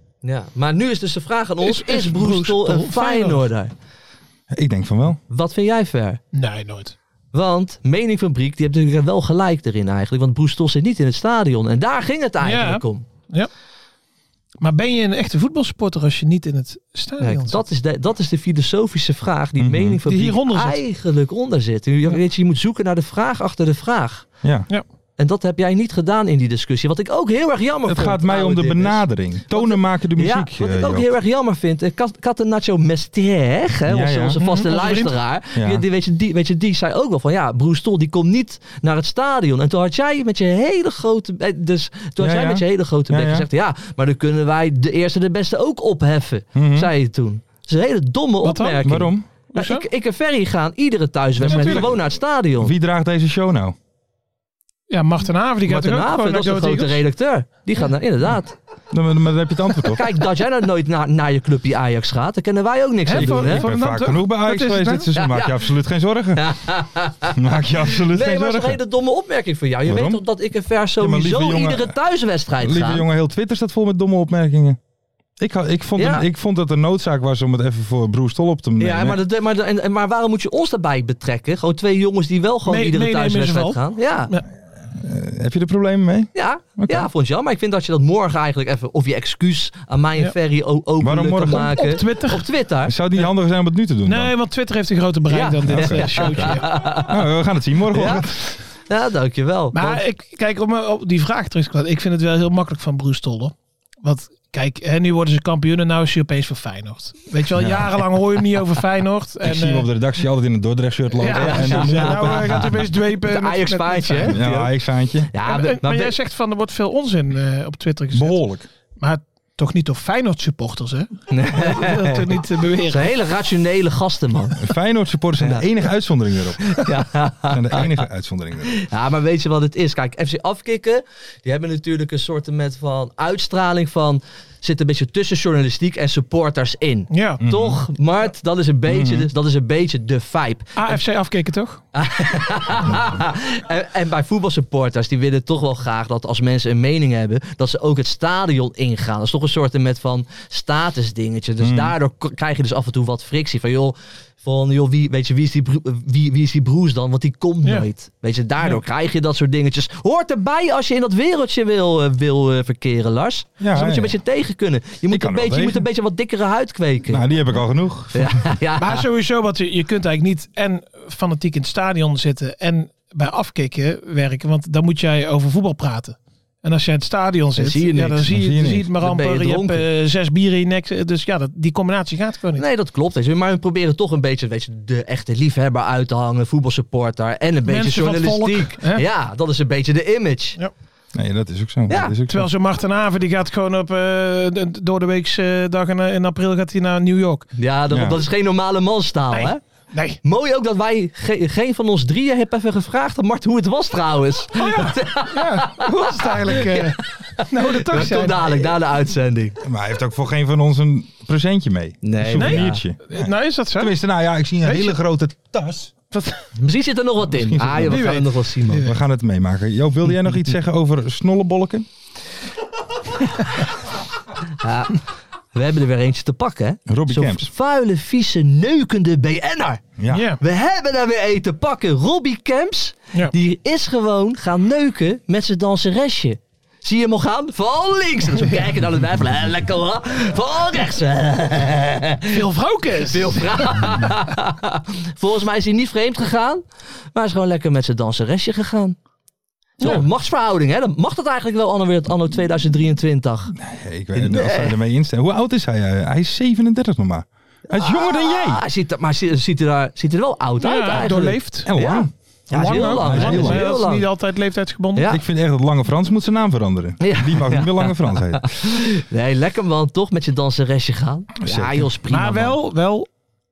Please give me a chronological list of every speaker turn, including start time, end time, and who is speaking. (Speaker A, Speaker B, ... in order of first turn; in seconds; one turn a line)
Speaker A: 0.2-3.7
Speaker B: 1.6-3.5
Speaker C: 4.5-5.2
Speaker A: 5.3-6.2
Speaker B: 6.3-7.0
Speaker A: 7.3-13.1
Speaker B: 12.4-13.5
Speaker B: 14.6-17.6
Speaker A: 17.2-24.3
Speaker C: 19.6-20.0
Speaker B: 20.1-20.8
Speaker C: 24.4-24.7
Speaker A: 25.2-52.7
Speaker C: 27.9-31.1
Speaker C: 33.9-34.4
Speaker B: 34.4-35.1
Speaker C: 35.6-35.8
Speaker C: 42.2-43.5
Speaker C: 46.5-46.9
Speaker B: 48.4-48.9
Speaker C: 48.8-49.3
Speaker B: 49.5-49.9
Speaker C: 51.4-52.1
Speaker B: 51.4-51.9
Speaker C: 52.6-53.8
Speaker B: 54.9-57.0
Speaker A: 55.7-58.6
Speaker C: 58.9-60.2
Speaker A: 59.9-63.7
Speaker B: 63.1-65.1
Speaker C: 63.2-66.5
Speaker A: 65.1-65.6
Speaker A: 66.3-67.4
Speaker C: 67.3-68.8
Speaker A: 67.9-73.1
Speaker C: 69.8-70.2
Speaker C: 71.0-71.9
Speaker C: 72.6-74.8
Speaker C: 75.4-79.2
Speaker A: 76.0-76.3
Speaker A: 78.8-84.3
Speaker B: 82.7-84.5
Speaker C: 84.9-87.1
Speaker A: 86.3-92.9
Speaker C: 91.0-91.8
Speaker B: 91.5-92.5
Speaker C: 92.9-94.3
Speaker B: 94.1-96.7
Speaker A: 95.3-97.2
Speaker C: 95.7-98.6
Speaker A: 97.9-98.3
Speaker A: 98.9-100.0
Speaker B: 99.7-109.9
Speaker C: 107.5-107.9
Speaker C: 109.4-112.9
Speaker B: 111.2-114.4
Speaker A: 111.3-114.7
Speaker C: 114.2-115.3
Speaker A: 115.3-116.2
Speaker B: 115.5-118.4
Speaker C: 118.1-118.7
Speaker B: 119.0-123.1
Speaker A: 121.3-122.3
Speaker A: 122.9-124.6
Speaker C: 124.6-126.9
Speaker A: 126.7-128.0
Speaker C: 127.5-128.8
Speaker A: 128.7-141.0
Speaker B: 137.1-137.4
Speaker C: 137.4-137.8
Speaker C: 138.9-139.3
Speaker B: 140.8-141.8
Speaker A: 141.9-167.3
Speaker C: 151.6-151.9
Speaker C: 163.6-164.2
Speaker C: 165.1-165.9
Speaker C: 167.1-168.4
Speaker A: 168.1-169.0
Speaker B: 168.8-182.7
Speaker A: 177.6-178.3
Speaker C: 178.3-178.9
Speaker A: 179.0-179.8
Speaker A: 182.6-190.6
Speaker B: 187.7-189.0
Speaker C: 191.1-192.5
Speaker A: 191.9-192.1
Speaker B: 192.3-197.5
Speaker A: 197.6-199.6
Speaker C: 197.9-198.2
Speaker B: 199.3-200.2
Speaker A: 200.2-209.6
Speaker B: 204.6-208.8
Speaker C: 209.6-215.9
Speaker A: 212.0-212.8
Speaker B: 212.4-214.0
Speaker B: 214.6-215.0
Speaker B: 216.1-216.5
Speaker A: 216.6-218.9
Speaker C: 217.3-218.2
Speaker B: 217.9-219.0
Speaker C: 218.8-221.9
Speaker A: 223.2-223.5
Speaker A: 224.6-229.8
Speaker C: 226.9-227.5
Speaker C: 230.0-230.3
Speaker B: 230.1-230.4
Speaker A: 230.4-242.4
Speaker B: 242.3-243.7
Speaker A: 243.0-246.6
Speaker A: 247.1-249.0
Speaker B: 249.8-250.1
Speaker A: 249.8-253.5
Speaker C: 253.6-258.6
Speaker A: 254.1-254.8
Speaker A: 257.7-264.1
Speaker B: 260.6-261.7
Speaker C: 260.9-263.7
Speaker B: 262.5-265.1
Speaker A: 264.9-265.2
Speaker C: 265.1-268.5
Speaker A: 267.0-272.6
Speaker C: 271.4-271.9
Speaker B: 272.1-273.1